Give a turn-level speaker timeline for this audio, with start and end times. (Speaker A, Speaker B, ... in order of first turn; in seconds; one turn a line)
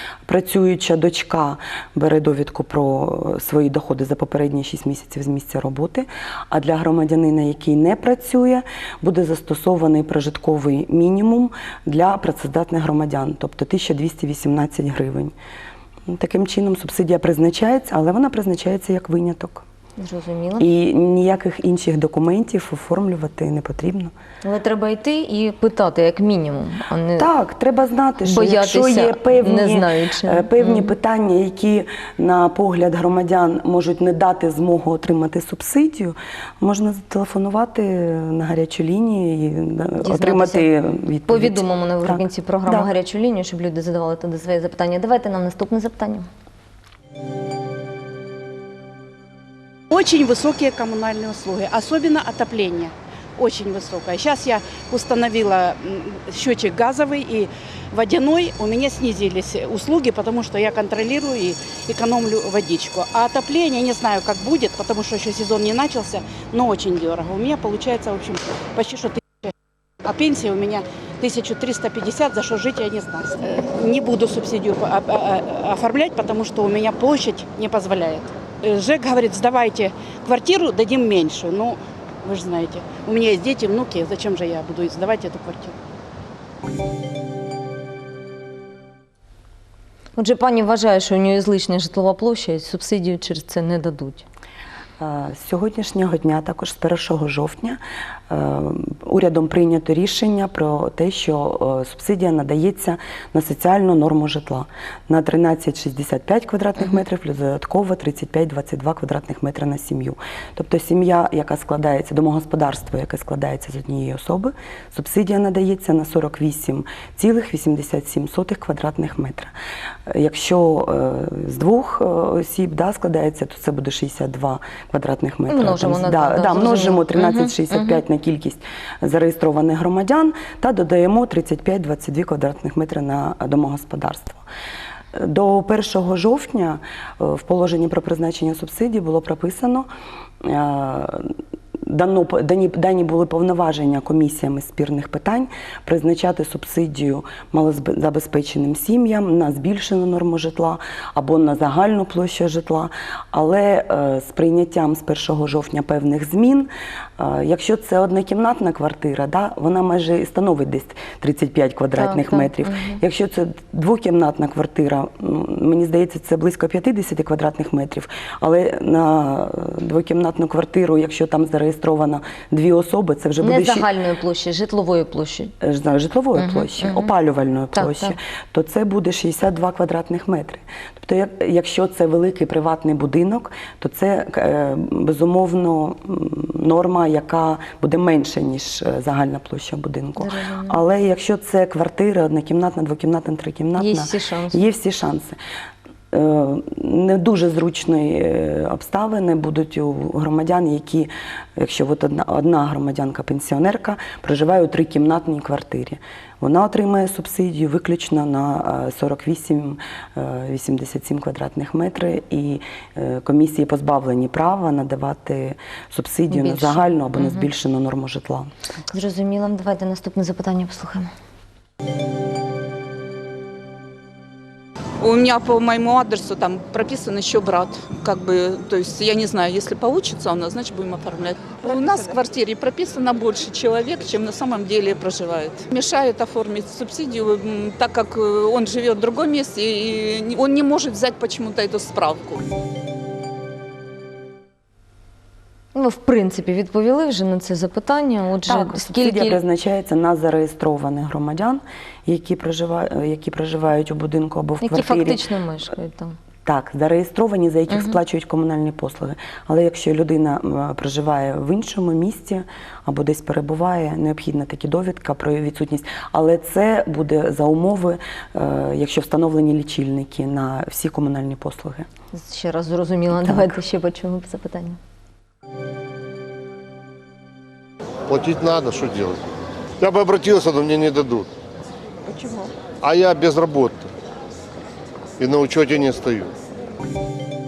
Speaker A: 0.2-15.3
Speaker A: 16.1-19.6
Speaker B: 20.0-20.6
Speaker A: 20.6-24.1
Speaker B: 24.4-27.3
Speaker A: 27.2-42.9
Speaker B: 28.2-30.9
Speaker B: 40.0-40.6
Speaker B: 41.3-46.3
Speaker C: 49.9-69.5
Speaker C: 70.0-85.7
Speaker B: 90.2-94.2
Speaker A: 95.0-119.5
Speaker A: 120.1-134.4
Speaker B: 125.5-128.0
Speaker A: 135.1-139.9
Speaker A: 140.4-141.3
Speaker A: 141.9-173.9
Speaker B: 162.0-163.0
Speaker B: 173.4-175.5
Speaker A: 175.6-195.3
Speaker B: 176.3-177.1
Speaker B: 177.7-178.1
Speaker B: 190.2-190.8
Speaker B: 193.8-194.6
Speaker A: 196.1-218.5
Speaker B: 216.3-217.4
Speaker B: 218.9-221.1
Speaker D: 225.0-242.4
Speaker B: 245.7-249.4
Speaker A: 248.4-255.2
Speaker B: 254.6-256.2
Speaker A: 256.4-271.9
Speaker B: 257.7-258.0
Speaker B: 272.1-274.8
Speaker A: 273.1-273.6
Speaker E: 278.1-279.2
Speaker E: 279.8-281.3
Speaker D: 282.1-282.5
Speaker E: 282.8-283.9
Speaker E: 285.2-286.3